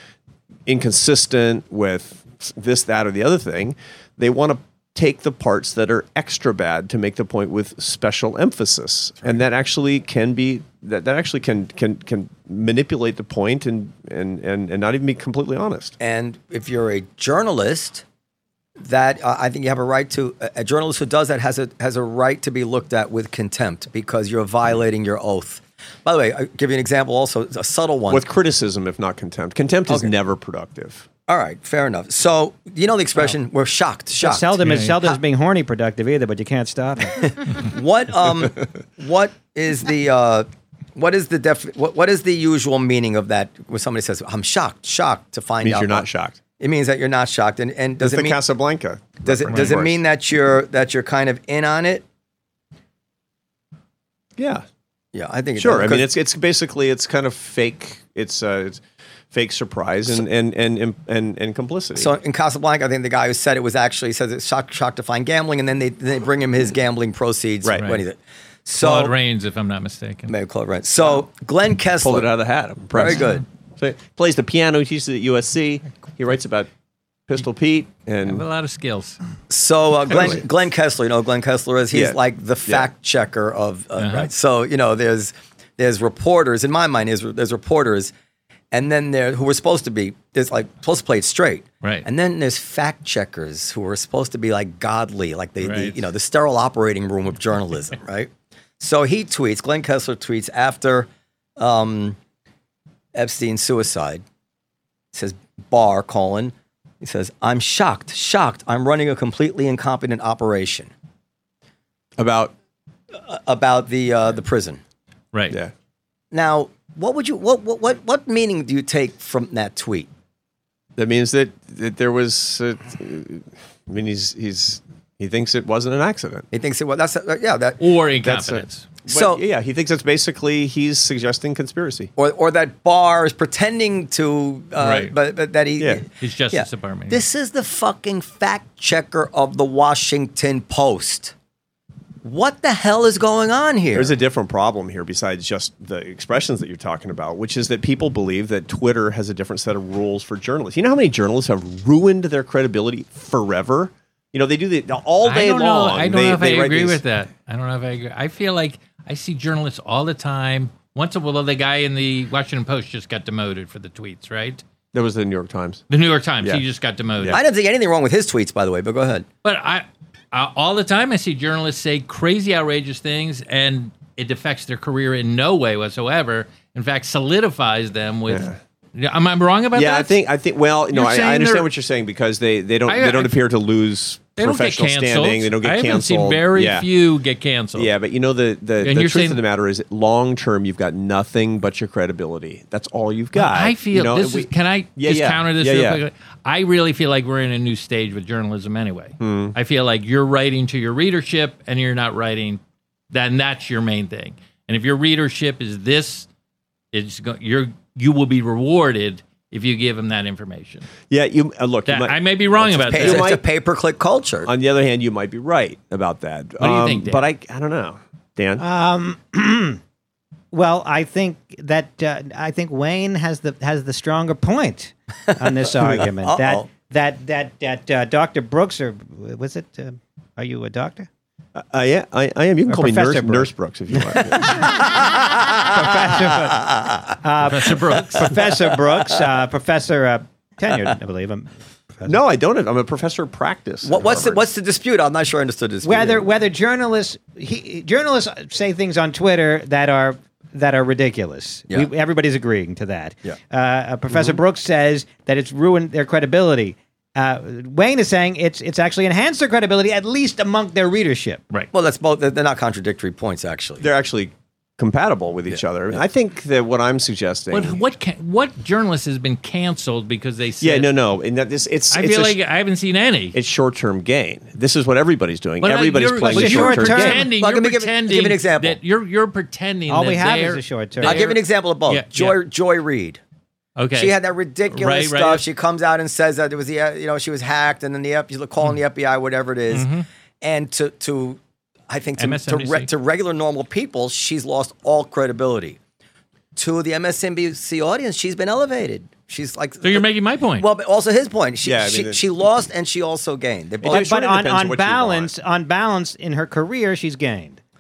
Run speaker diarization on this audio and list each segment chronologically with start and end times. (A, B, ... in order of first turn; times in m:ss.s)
0:00.7-0:16.0 A
0:16.0-0:18.0 B
0:18.8-0:28.3 B
0:28.1-0:31.1 A
0:29.9-0:30.1 B
0:31.3-0:35.2 B
0:34.2-0:37.4 C
0:34.6-0:35.0 D
0:37.2-0:46.1 B
0:45.6-0:46.4 A
0:46.6-0:48.4 B
0:48.0-0:50.0 A
0:49.2-0:52.0 B
0:54.4-0:54.6 A
0:55.1-0:56.1 B
0:55.6-0:58.8 A
0:59.3-1:02.1 A
1:02.0-1:09.1 B
1:07.6-1:07.9 A
1:08.7-1:10.3 D
1:10.3-1:12.3 B
1:12.0-1:16.7 A
1:12.9-1:13.4 B
1:17.3-1:18.4 A
1:18.2-1:19.2 D
1:19.5-1:28.1 B
1:20.1-1:20.4 A
1:21.9-1:22.9 A
1:24.0-1:24.3 D
1:28.7-1:42.2 B
1:35.6-1:36.0 D
1:43.2-1:44.2 B
1:45.1-1:50.9 B
1:52.2-1:52.5 A
1:53.1-1:54.8 B
1:55.3-1:55.6 D
1:56.3-2:00.1 B
2:01.0-2:06.5 A
2:06.5-2:07.8 B
2:07.8-2:08.9 D
2:08.2-2:12.1 A
2:09.1-2:09.4 B
2:12.2-2:21.3 B
2:14.8-2:15.1 D
2:16.2-2:17.2 D
2:22.2-2:24.2 B
2:24.0-2:37.0 A
2:35.2-2:44.6 D
2:44.9-2:45.8 A
2:45.9-2:47.4 D
2:47.3-2:49.3 B
2:49.4-3:00.1 D
2:58.3-2:58.6 A
2:59.7-3:06.9 A
3:00.9-3:01.7 D
3:02.9-3:03.4 D
3:04.4-3:07.9 D
3:07.8-3:16.0 A
3:08.8-3:09.4 D
3:13.3-3:22.6 D
3:19.2-3:19.6 A
3:23.1-3:26.3 D
3:26.9-3:30.9 D
3:31.1-3:33.4 A
3:31.9-3:33.3 D
3:32.9-3:34.5 B
3:34.4-3:38.6 A
3:36.6-3:37.2 D
3:38.6-3:39.8 C
3:40.5-3:51.1 C
3:45.8-3:46.7 B
3:51.6-3:54.8 A
3:52.7-3:53.5 C
3:54.1-3:55.1 C
3:55.0-3:55.6 B
3:55.6-4:02.2 C
3:56.5-3:57.0 B
3:57.4-3:58.4 D
4:02.1-4:04.4 A
4:03.8-4:06.3 B
4:05.8-4:21.4 C
4:21.7-4:23.9 B
4:23.8-4:27.8 A
4:27.5-4:30.9 D
4:30.6-4:32.4 A
4:31.9-4:33.4 D
4:33.3-4:37.3 A
4:35.6-4:42.4 D
4:36.2-4:37.3 C
4:37.4-4:38.8 B
4:39.9-4:41.2 C
4:41.0-4:43.2 B
4:43.8-4:44.1 D
4:43.9-4:49.9 B
4:44.7-4:45.4 D
4:49.7-4:50.0 D
4:50.4-4:55.8 B
4:52.2-4:52.9 D
4:56.6-5:04.1 B
4:59.8-5:00.7 D
5:01.6-5:02.2 A
5:03.8-5:05.3 A
5:03.9-5:07.6 C